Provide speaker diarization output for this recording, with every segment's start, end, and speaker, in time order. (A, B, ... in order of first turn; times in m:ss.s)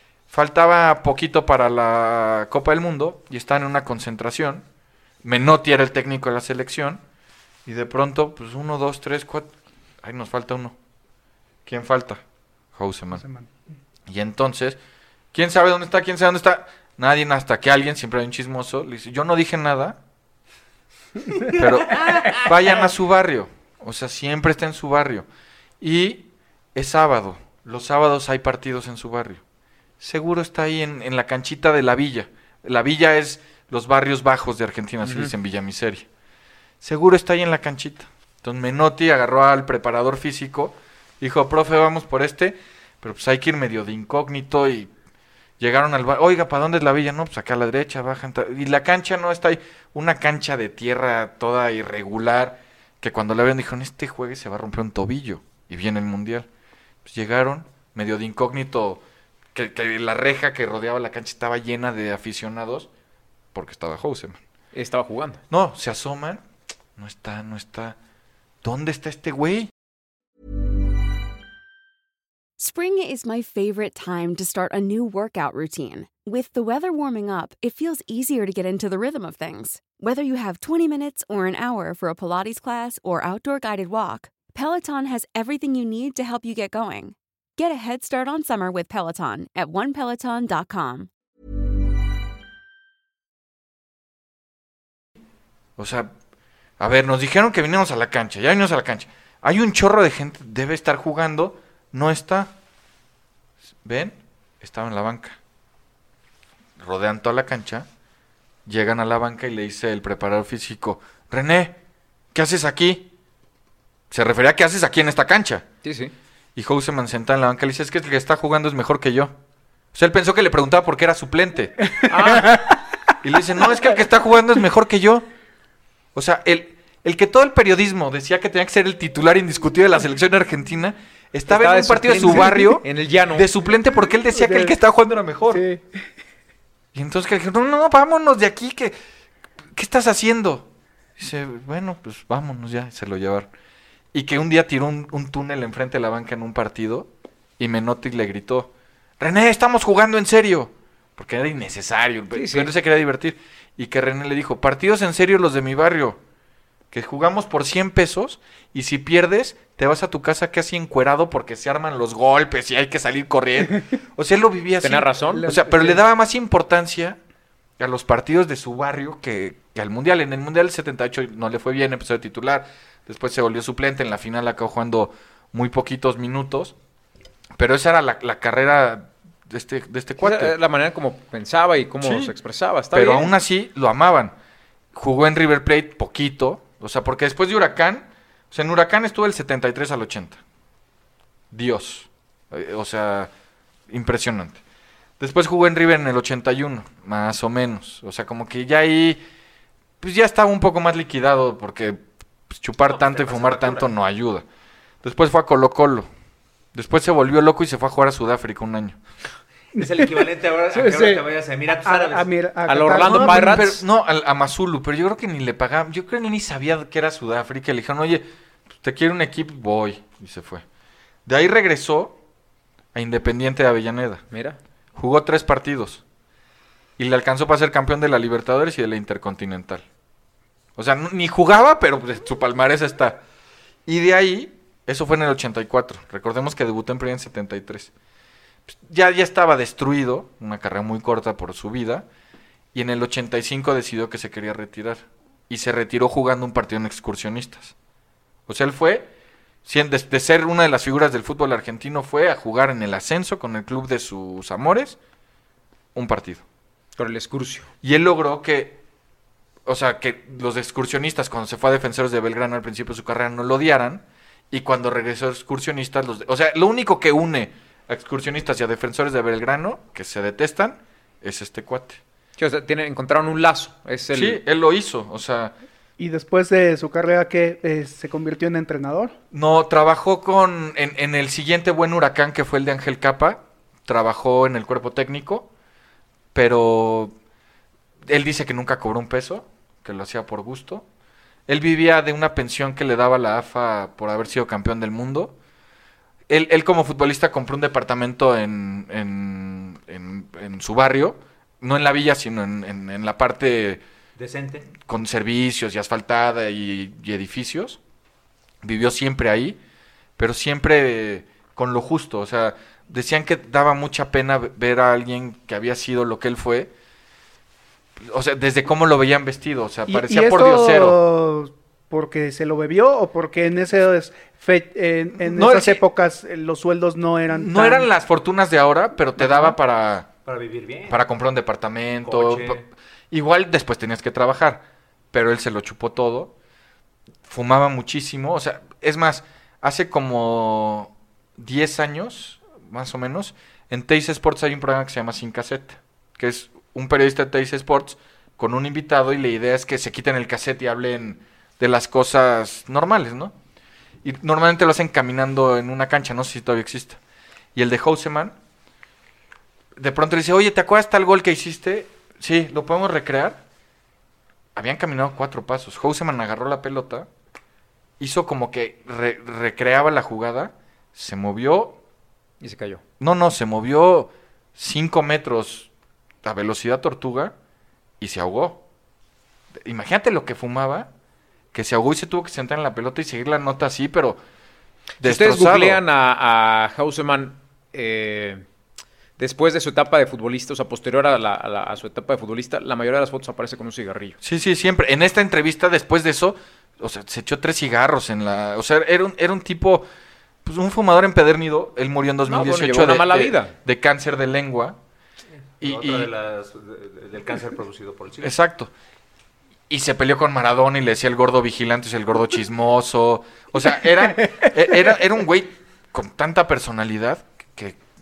0:00.3-0:04.6 A
0:05.2-0:07.0 A
0:07.7-0:09.5 A
0:10.0-0:10.8 A
0:11.7-0:12.2 A
0:12.7-0:13.2 A
0:13.1-0:13.5 B
0:14.1-0:14.8 A
0:15.3-0:20.0 A
0:21.4-0:22.9 C
0:21.5-0:25.3 A
0:25.8-0:29.4 A
0:30.0-0:36.1 A
0:35.0-0:35.3 D
0:36.8-0:44.9 A
0:45.6-0:56.5 A
0:57.0-0:59.0 A
0:59.5-1:02.9 A
1:03.5-1:04.4 A
1:04.7-1:05.4 D
1:05.5-1:06.4 A
1:07.0-1:08.0 A
1:08.6-1:09.7 A
1:12.6-1:31.1 E
1:35.8-1:36.1 A
1:36.8-1:42.5 A
1:43.8-1:45.4 A
1:46.8-1:47.9 A
1:48.7-1:51.8 A
1:52.3-1:53.1 A
1:54.1-1:55.6 A
1:55.8-1:56.1 D
1:56.6-1:59.3 A
1:59.9-2:02.2 A
2:02.1-2:02.6 D
2:02.2-2:02.8 B
2:03.2-2:05.2 A
2:06.2-2:15.6 A
2:11.5-2:13.5 D
2:12.2-2:12.8 B
2:14.3-2:14.7 B
2:15.5-2:15.9 B
2:16.9-2:19.0 A
2:19.7-2:23.5 A
2:24.1-2:36.2 A
2:32.3-2:32.7 D
2:36.9-2:47.2 A
2:44.8-2:45.5 D
2:45.4-2:46.0 B
2:47.8-2:56.8 A
2:57.6-3:00.5 A
3:00.2-3:03.3 D
3:02.0-3:02.3 A
3:02.9-3:04.3 A
3:04.9-3:10.4 A
3:11.5-3:13.3 A
3:13.9-3:14.6 A
3:15.2-3:19.2 A
3:20.0-3:24.4 A
3:22.9-3:23.9 C
3:25.0-3:26.1 A
3:26.7-3:29.0 A
3:29.8-3:32.3 C
3:29.8-3:31.2 B
3:31.8-3:33.7 B
3:32.7-3:33.8 D
3:33.0-3:38.3 A
3:38.8-3:40.6 A
3:41.3-3:42.2 A
3:42.9-3:44.2 A
3:44.3-3:44.6 D
3:45.0-3:46.0 A
3:47.0-3:49.8 A
3:50.8-3:53.2 A
3:53.9-3:57.9 A
3:58.7-4:02.1 A
4:02.7-4:07.8 A
4:08.5-4:09.1 A
4:09.6-4:15.0 A
4:16.0-4:16.4 A
4:17.0-4:17.7 D
4:17.8-4:18.8 A
4:19.7-4:32.0 A
4:32.4-4:34.4 D
4:34.1-4:35.6 A
4:36.0-4:39.1 B
4:39.3-4:45.5 A
4:46.3-4:47.1 A
4:48.0-4:50.8 A
4:51.5-4:55.4 A
4:56.3-5:03.8 A
5:04.2-5:04.7 C
5:04.8-5:07.8 A
5:08.6-5:09.6 A
5:10.2-5:16.7 A
5:18.0-5:21.0 A
5:19.9-5:27.9 B
5:25.1-5:25.8 A
5:27.3-5:30.1 A
5:29.2-5:29.6 B
5:30.3-5:31.0 C
5:30.9-5:36.3 A
5:32.0-5:32.6 C
5:37.3-5:53.4 A
5:54.0-5:57.0 A
5:57.6-5:58.4 A
5:59.8-6:03.4 A
6:04.5-6:07.1 A
6:08.0-6:11.8 A
6:12.4-6:12.8 D
6:13.0-6:15.7 A
6:16.2-6:17.3 A
6:18.0-6:18.6 A
6:19.5-6:20.9 A
6:21.5-6:24.2 A
6:25.0-6:25.8 A
6:25.0-6:28.4 D
6:29.2-6:34.2 D
6:34.2-6:39.9 A
6:40.4-6:44.8 A
6:42.3-6:43.5 D
6:45.6-6:48.3 C
6:45.6-6:46.1 A
6:48.2-6:48.7 A
6:49.7-6:57.8 A